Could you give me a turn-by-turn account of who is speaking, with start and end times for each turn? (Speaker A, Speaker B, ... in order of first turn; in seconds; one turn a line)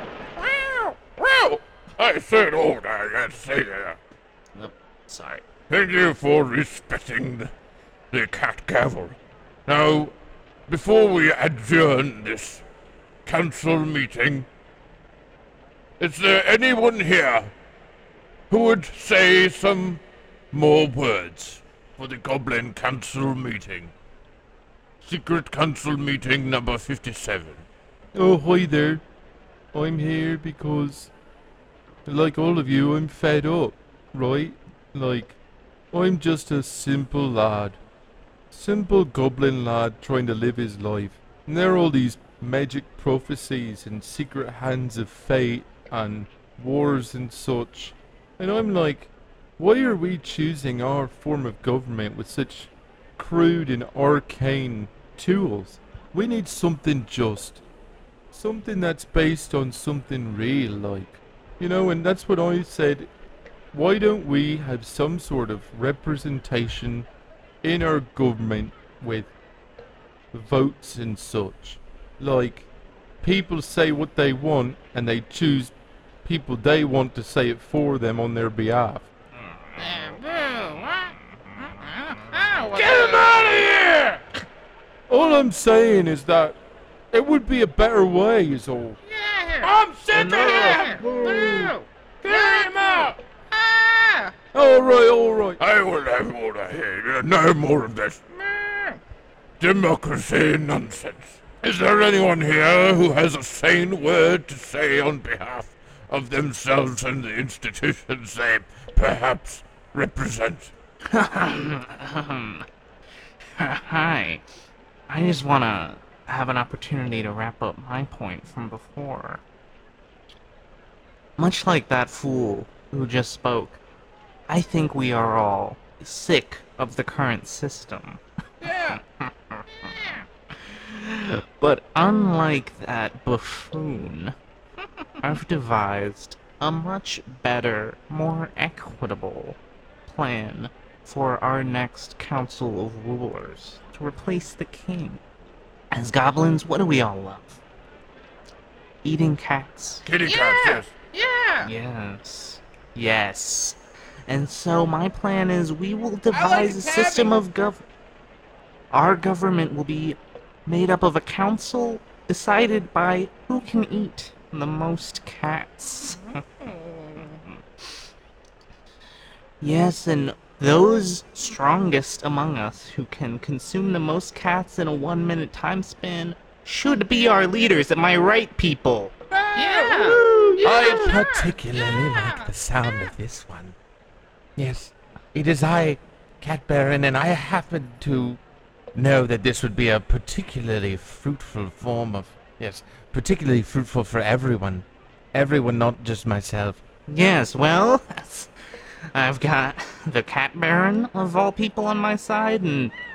Speaker A: 0.4-4.0
Speaker B: 4.5-5.4
Speaker A: 5.7-7.5
Speaker A: 8.1-10.1
Speaker A: 10.7-12.6
Speaker A: 13.2-14.5
Speaker A: 16.0-17.5
Speaker A: 18.5-23.9
Speaker A: 25.0-27.6
Speaker C: 28.1-29.0
Speaker C: 29.7-31.1
Speaker C: 32.0-35.4
Speaker C: 35.9-37.8
Speaker C: 38.5-57.6
Speaker C: 58.3-63.1
Speaker C: 63.7-67.1
Speaker C: 67.6-69.3
Speaker C: 70.3-72.7
Speaker C: 73.2-79.1
Speaker D: 79.8-83.3
Speaker A: 82.7-84.2
Speaker C: 85.1-86.6
Speaker C: 87.1-89.0
Speaker D: 89.0-94.3
Speaker A: 89.6-93.2
Speaker C: 94.5-95.6
Speaker A: 95.6-98.2
Speaker D: 98.3-99.0
Speaker A: 99.6-110.7
Speaker B: 111.1-112.7
Speaker B: 113.6-114.4
Speaker B: 115.1-119.4
Speaker B: 121.4-123.8
Speaker B: 124.5-128.2
Speaker D: 128.6-129.0
Speaker B: 128.8-129.9
Speaker D: 129.8-130.2
Speaker B: 130.7-134.3
Speaker B: 135.2-145.2
Speaker B: 145.9-147.6
Speaker B: 149.0-150.0
Speaker A: 150.0-150.9
Speaker D: 150.2-151.7
Speaker B: 151.6-157.8
Speaker D: 156.3-157.4
Speaker B: 158.9-166.2
Speaker D: 166.1-167.4
Speaker B: 169.6-180.9
Speaker D: 179.5-183.1
Speaker E: 180.6-183.8
Speaker E: 184.6-188.4
Speaker E: 188.9-196.8
Speaker B: 197.1-198.5
Speaker B: 199.1-202.9